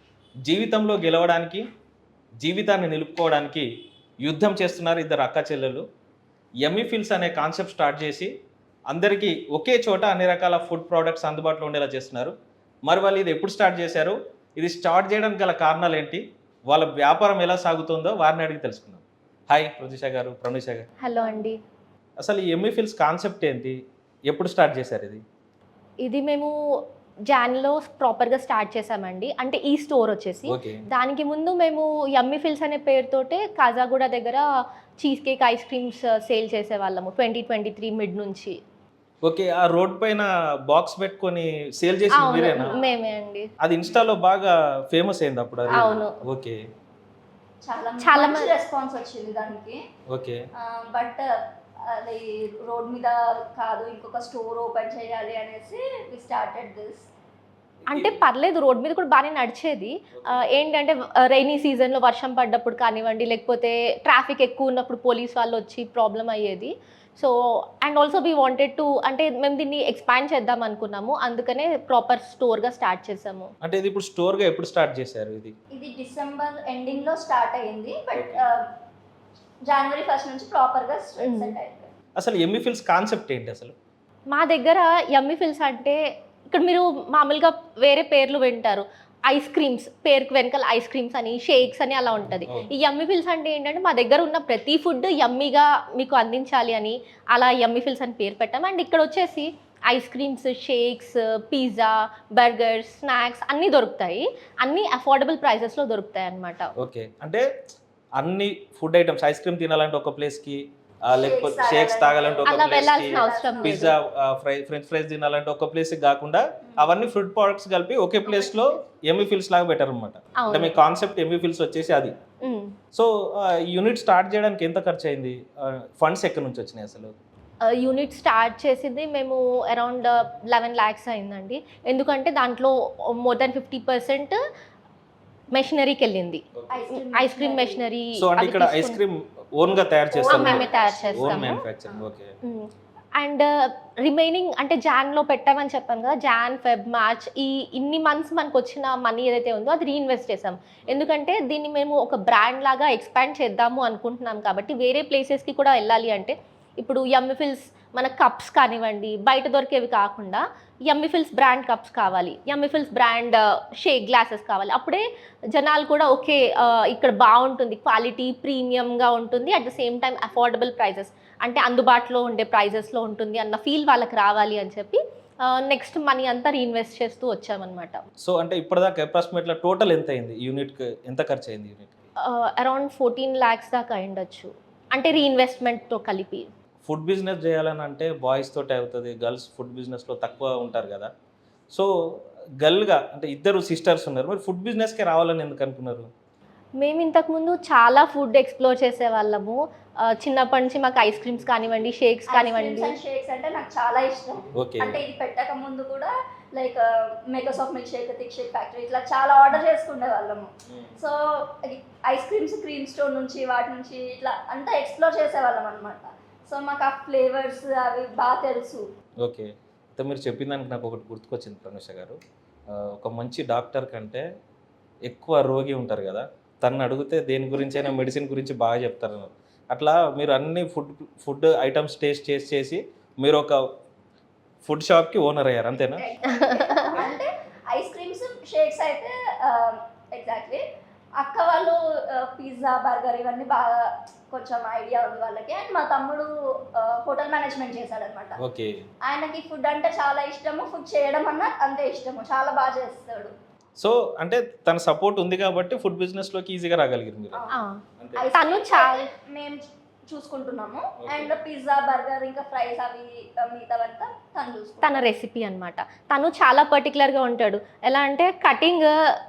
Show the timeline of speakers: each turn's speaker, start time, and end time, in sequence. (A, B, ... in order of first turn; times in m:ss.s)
0:00.5-0:01.6 A
0:02.4-0:03.7 A
0:04.2-0:05.8 A
0:06.6-0:08.3 A
0:08.9-0:12.3 A
0:12.9-0:20.9 A
0:21.0-0:21.6 B
0:21.2-0:21.4 C
0:22.2-0:23.8 A
0:24.3-0:25.2 A
0:26.0-0:26.5 B
0:27.3-0:34.4 B
0:30.5-0:30.8 A
0:35.0-0:38.6 B
0:39.2-0:42.7 A
0:42.1-0:43.5 B
0:42.5-0:42.9 C
0:43.6-0:46.6 A
0:45.7-0:46.2 B
0:47.6-0:49.8 C
0:48.0-0:48.5 B
0:50.1-0:50.4 A
0:50.6-0:51.2 C
0:51.9-0:57.1 C
0:57.9-0:58.2 A
0:57.9-1:13.5 B
1:00.2-1:00.6 A
1:13.6-1:15.5 A
1:15.7-1:18.7 C
1:18.1-1:18.5 A
1:19.7-1:21.9 C
1:21.2-1:21.6 B
1:22.2-1:23.7 A
1:24.3-1:26.0 B
1:26.5-1:46.7 B
1:32.5-1:32.7 A
1:46.8-1:47.4 A
1:48.2-2:02.1 A
1:51.1-1:53.9 C
1:52.5-1:54.0 B
1:58.2-1:58.8 C
2:00.4-2:00.8 B
2:02.4-2:02.7 B
2:02.9-2:07.1 A
2:07.6-2:14.4 B
2:15.5-2:16.4 B
2:16.7-2:17.8 C
2:16.9-2:19.0 B
2:18.2-2:22.3 A
2:20.1-2:22.0 C
2:20.3-2:21.5 B
2:22.4-2:23.5 B
2:24.0-2:45.0 B
2:45.5-2:58.0 B
2:58.2-3:02.0 A
3:02.2-3:06.5 B
3:06.8-3:11.1 A
3:12.6-3:16.1 A
3:16.8-3:23.0 B
3:22.3-3:38.8 C
3:24.6-3:25.0 A
3:30.7-3:31.0 A
3:39.2-3:42.2 A
3:42.7-3:44.2 A
3:45.1-3:53.6 A
3:54.6-3:56.1 A
3:55.7-4:00.6 C
3:56.3-3:57.1 B
4:01.2-4:08.4 C
4:08.4-4:08.8 A
4:09.1-4:13.3 C
4:13.8-4:17.4 A
4:17.3-4:17.6 C
4:17.5-4:17.8 B
4:18.0-4:18.3 A
4:18.2-4:25.1 C
4:18.3-4:19.1 B
4:21.0-4:21.4 A
4:24.8-4:28.9 B